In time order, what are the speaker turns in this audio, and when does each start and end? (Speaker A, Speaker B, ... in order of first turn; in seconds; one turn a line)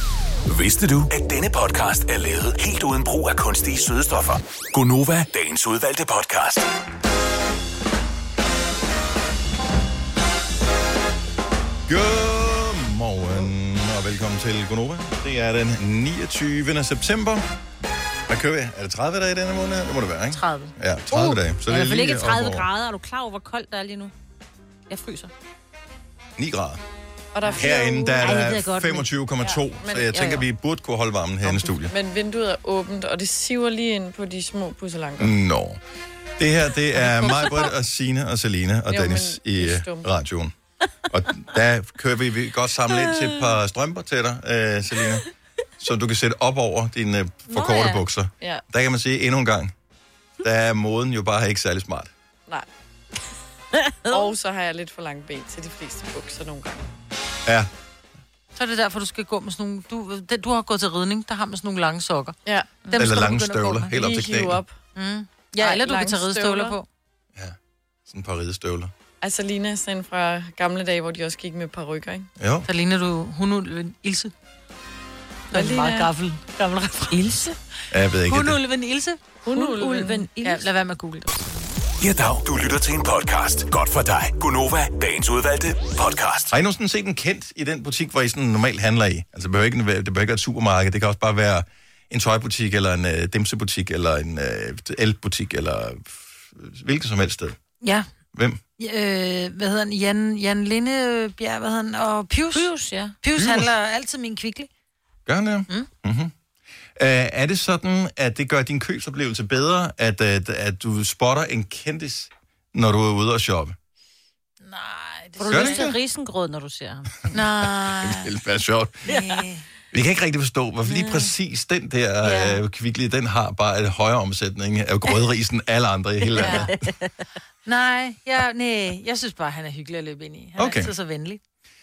Speaker A: 0.5-6.7
Speaker B: 11.9-17.4
Speaker B: 18.3-22.7
Speaker C: 20.4-20.7
Speaker D: 21.1-24.1
Speaker D: 24.9-25.3
Speaker B: 26.4-26.8
Speaker E: 27.3-28.2
Speaker B: 27.5-31.9
Speaker D: 27.6-29.1
Speaker E: 29.4-30.2
Speaker D: 30.1-30.4
Speaker E: 31.8-35.4
Speaker B: 35.2-35.8
Speaker B: 36.4-40.5
Speaker E: 38.9-40.1
Speaker B: 41.1-45.2
Speaker B: 45.8-49.7
Speaker D: 47.5-48.0
Speaker B: 50.4-52.1
Speaker D: 53.9-54.3
Speaker E: 54.1-56.9
Speaker C: 58.6-64.0
Speaker E: 62.5-62.9
Speaker B: 63.0-64.6
Speaker E: 63.9-64.8
Speaker C: 65.0-66.9
Speaker E: 65.6-66.8
Speaker B: 68.1-68.9
Speaker E: 69.2-72.3
Speaker B: 72.4-72.7
Speaker C: 72.7-74.3
Speaker C: 75.5-77.5
Speaker E: 75.5-76.1
Speaker D: 77.1-77.5
Speaker B: 77.9-78.6
Speaker C: 78.2-79.2
Speaker E: 79.5-80.3
Speaker D: 79.5-80.7
Speaker C: 80.4-81.4
Speaker A: 82.0-86.5
Speaker B: 86.5-97.6
Speaker C: 97.8-98.1
Speaker B: 98.3-98.6
Speaker C: 98.8-104.7
Speaker D: 102.5-103.2
Speaker B: 103.4-103.7
Speaker B: 105.3-106.3
Speaker B: 107.0-113.8
Speaker C: 114.6-115.9
Speaker D: 115.4-117.3
Speaker B: 115.5-116.0
Speaker B: 117.3-119.1
Speaker C: 117.3-118.3
Speaker C: 119.1-119.6
Speaker B: 119.9-126.7
Speaker D: 122.3-122.5
Speaker D: 126.3-127.1
Speaker C: 126.4-126.7
Speaker C: 127.7-131.4
Speaker B: 130.6-130.9